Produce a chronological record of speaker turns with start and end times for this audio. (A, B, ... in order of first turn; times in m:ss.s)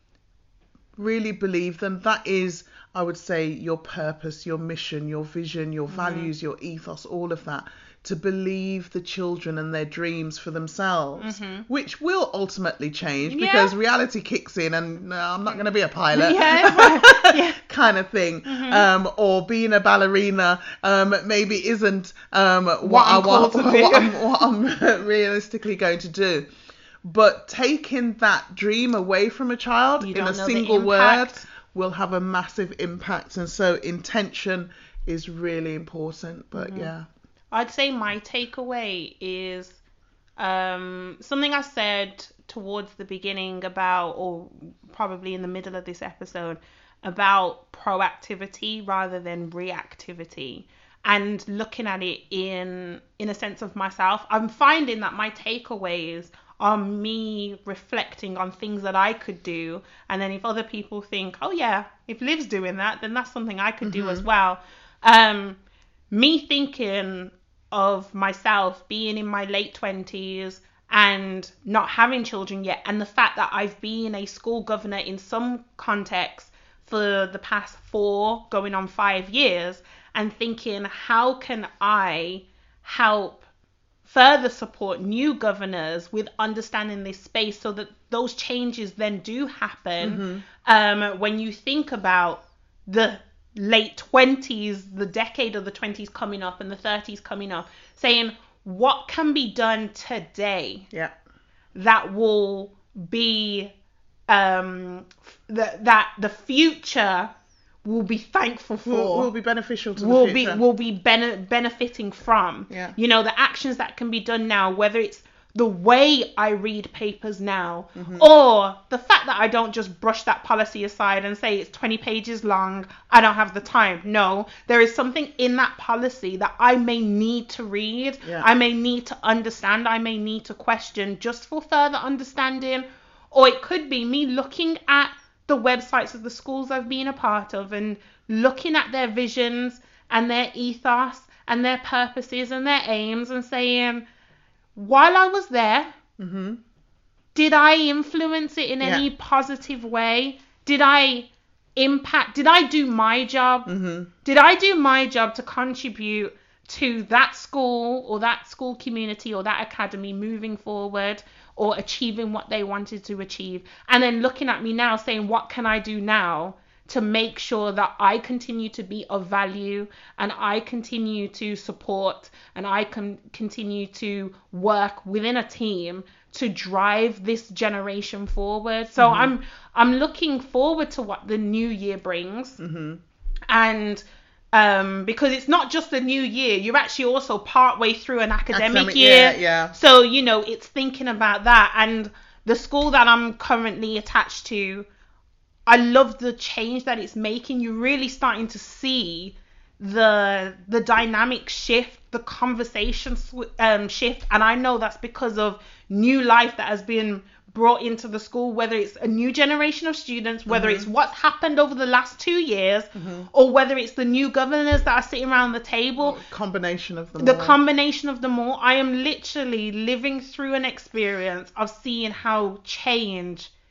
0:01.0-0:26.5 A
0:05.9-0:06.3 B
0:11.2-0:11.7 B
0:13.3-0:13.7 B
0:16.1-0:17.6 B
0:18.4-0:18.8 B
0:22.8-0:24.2 B
0:27.0-0:37.1 A
0:30.0-0:31.5 B
0:36.5-0:36.9 B
0:37.5-0:39.8 B
0:40.4-1:05.6 B
1:03.8-1:04.2 A
1:06.1-1:23.4 B
1:24.0-1:40.9 B
1:30.0-1:30.4 A
1:41.7-1:43.7 B
1:44.3-1:47.3 B
1:47.8-1:49.3 B
1:48.8-1:50.6 A
1:50.0-2:24.0 B
1:52.7-1:53.0 A
1:57.9-1:58.3 A
2:08.2-2:08.5 A
2:24.7-2:25.9 B
2:26.2-2:26.6 A
2:27.3-2:33.7 B
2:33.6-2:34.1 A
2:34.2-3:02.6 B
2:59.0-2:59.3 A
3:02.6-3:03.0 A
3:03.5-3:14.8 B
3:08.5-3:09.7 A
3:15.7-3:36.2 B
3:30.5-3:30.9 A
3:32.9-3:33.3 A
3:36.0-3:37.6 A
3:37.2-3:43.5 B